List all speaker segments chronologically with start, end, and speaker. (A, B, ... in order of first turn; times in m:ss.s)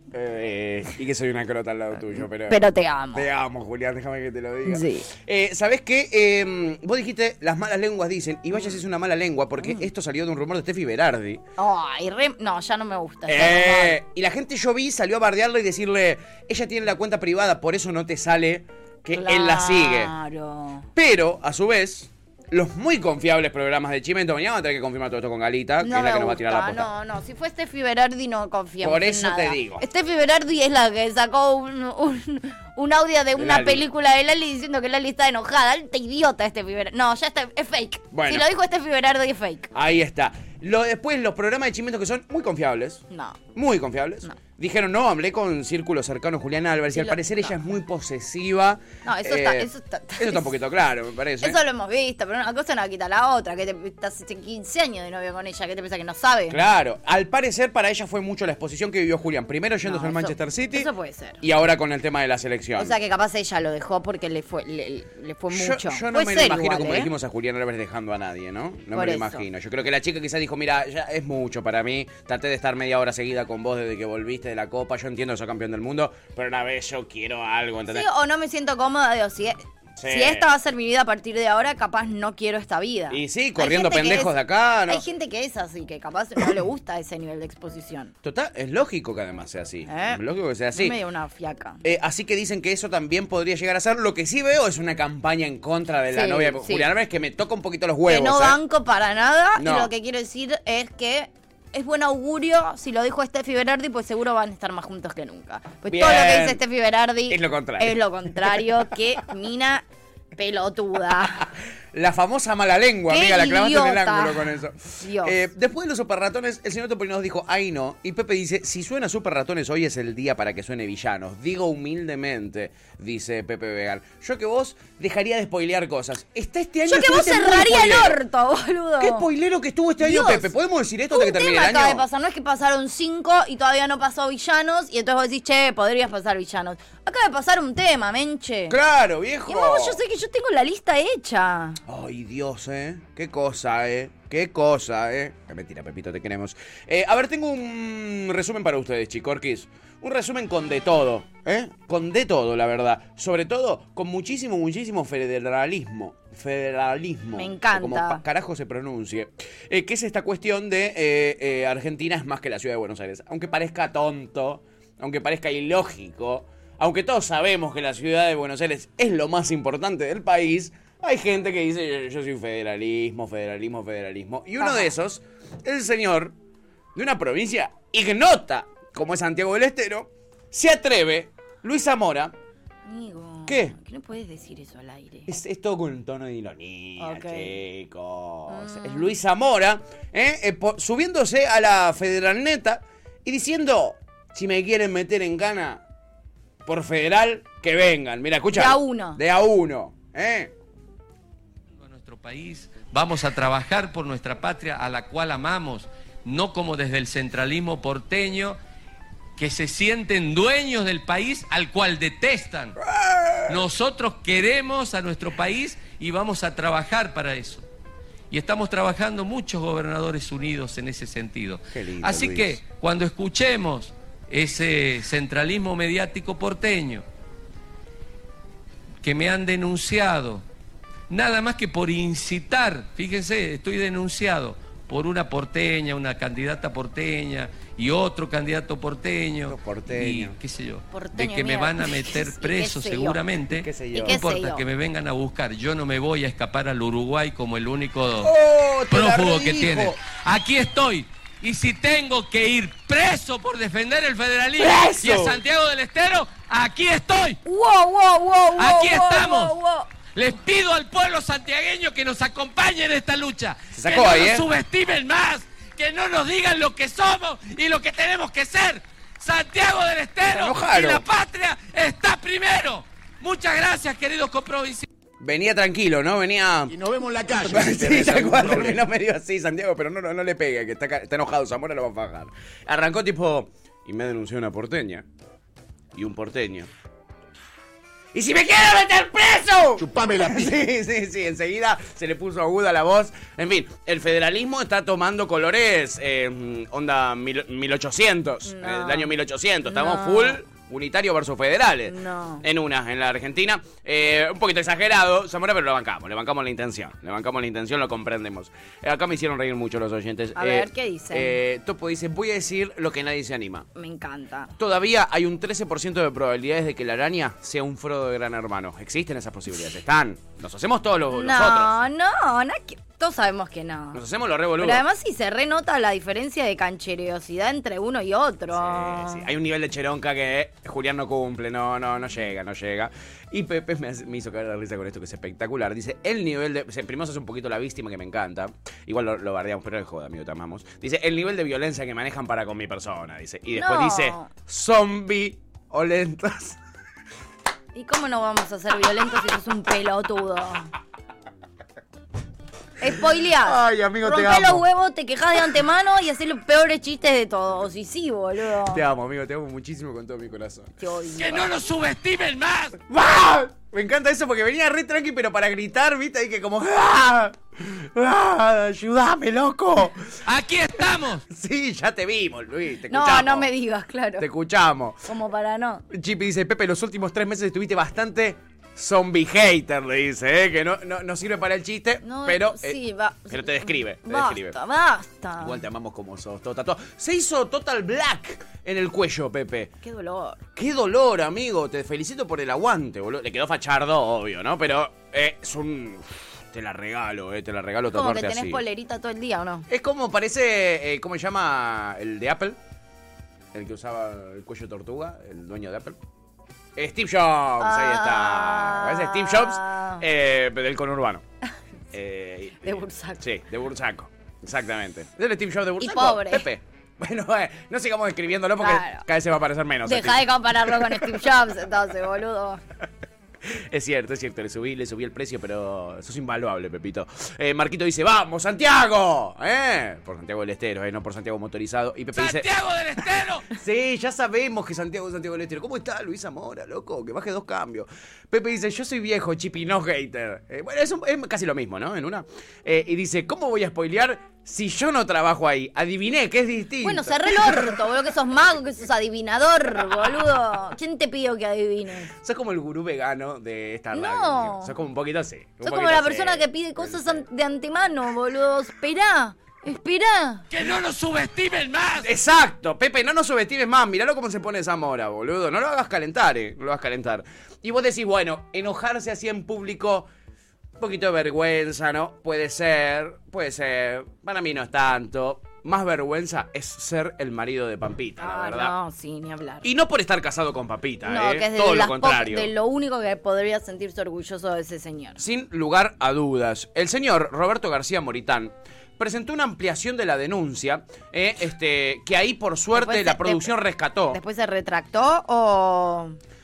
0:00.1-0:11.4 A
0:02.5-0:03.3 B
0:04.7-0:05.1 B
0:09.6-0:09.9 B
0:11.6-0:14.0 B
0:13.3-0:20.1 A
0:19.1-0:20.9 B
0:21.0-0:26.9 A
0:25.8-0:39.7 B
0:28.8-0:29.8 A
0:33.4-0:33.8 A
0:38.1-0:38.5 A
0:39.7-0:51.6 A
0:43.1-0:43.4 B
0:46.9-0:47.5 B
0:49.0-0:50.5 B
0:51.4-0:56.6 B
0:56.5-1:00.9 A
0:59.8-1:01.4 B
1:01.4-1:03.0 A
1:02.8-1:07.1 B
1:05.5-1:18.1 A
1:08.9-1:09.5 B
1:17.9-1:24.4 B
1:20.0-1:20.5 A
1:23.1-1:25.0 A
1:24.9-1:28.1 B
1:28.2-1:31.0 A
1:29.9-1:30.2 B
1:30.7-1:31.8 B
1:31.8-1:38.6 A
1:36.1-1:36.9 B
1:38.1-1:49.9 B
1:39.6-1:39.9 A
1:45.9-1:46.6 A
1:47.3-1:48.6 A
1:50.4-1:51.5 B
1:51.9-2:08.2 A
1:53.1-1:55.4 B
2:06.9-2:09.3 B
2:09.0-2:12.0 A
2:10.0-2:10.5 B
2:11.1-2:18.8 B
2:18.7-2:20.0 A
2:19.5-2:21.8 B
2:21.9-2:56.3 A
2:37.3-2:38.2 B
2:54.6-2:54.9 B
2:57.0-3:02.3 A
3:02.9-3:05.3 B
3:03.5-3:03.7 A
3:05.3-3:15.8 A
3:07.0-3:07.6 B
3:08.5-3:09.1 B
3:16.7-3:20.5 A
3:18.5-3:19.2 B
3:21.8-3:28.6 C
3:29.4-3:32.8 C
3:32.9-3:33.6 A
3:33.5-3:37.6 C
3:38.3-3:47.0 C
3:41.8-3:42.6 A
3:49.0-3:50.4 C
3:51.1-4:08.3 C
3:59.5-4:00.4 A
4:00.9-4:03.2 B
4:03.5-4:04.2 A
4:04.0-4:04.6 B
4:08.2-4:10.0 A
4:08.9-4:17.4 C
4:14.6-4:15.4 A
4:17.5-4:19.9 B
4:18.6-4:19.6 C
4:20.1-4:34.9 C
4:23.8-4:24.5 A
4:30.3-4:31.0 A
4:35.2-4:36.8 A
4:36.7-4:38.8 D
4:37.4-4:45.1 A
4:46.0-4:46.7 A
4:48.1-5:13.7 A
4:49.8-4:50.6 D
4:58.5-4:59.1 B
4:59.7-5:00.4 B
5:01.9-5:02.4 B
5:10.4-5:11.4 B
5:13.8-5:14.5 B
5:14.6-5:21.7 A
5:21.1-5:24.0 B
5:23.9-5:24.8 A
5:24.6-5:29.3 B
5:28.5-5:46.6 A
5:43.5-5:44.3 B
5:47.8-5:50.7 B
5:52.8-5:58.8 B
5:53.4-5:54.6 A
5:58.7-6:00.7 A
6:00.8-6:01.5 B
6:01.2-6:02.8 C
6:02.9-6:10.1 A
6:10.3-6:11.2 C
6:11.3-6:13.5 A
6:12.9-6:14.3 B
6:14.2-6:15.1 A
6:15.0-6:15.8 B
6:15.9-6:22.8 A
6:22.0-6:25.6 B
6:23.3-6:24.6 A
6:25.4-6:29.7 A
6:29.8-6:30.4 B
6:30.6-6:38.6 A
6:37.9-6:39.7 B
6:39.7-6:42.6 A
6:43.5-6:46.0 A
6:46.8-6:51.2 A
6:47.6-6:50.0 B
6:51.9-7:01.3 A
6:52.6-6:53.2 B
6:55.8-6:56.5 B
6:58.6-6:59.0 B
6:59.8-7:02.6 B
7:03.5-7:12.5 A
7:12.2-7:13.5 C
7:13.5-7:27.8 A
7:26.8-7:32.1 B
7:32.2-7:37.2 A
7:33.9-7:34.7 B
7:35.6-7:40.4 B
7:40.5-7:42.1 C
7:42.0-7:50.1 A
7:50.8-7:58.7 A
7:58.2-7:59.7 B
7:59.6-8:02.5 A
8:01.1-8:05.2 B
8:05.2-8:14.2 A
8:12.7-8:13.5 B
8:14.1-8:16.2 B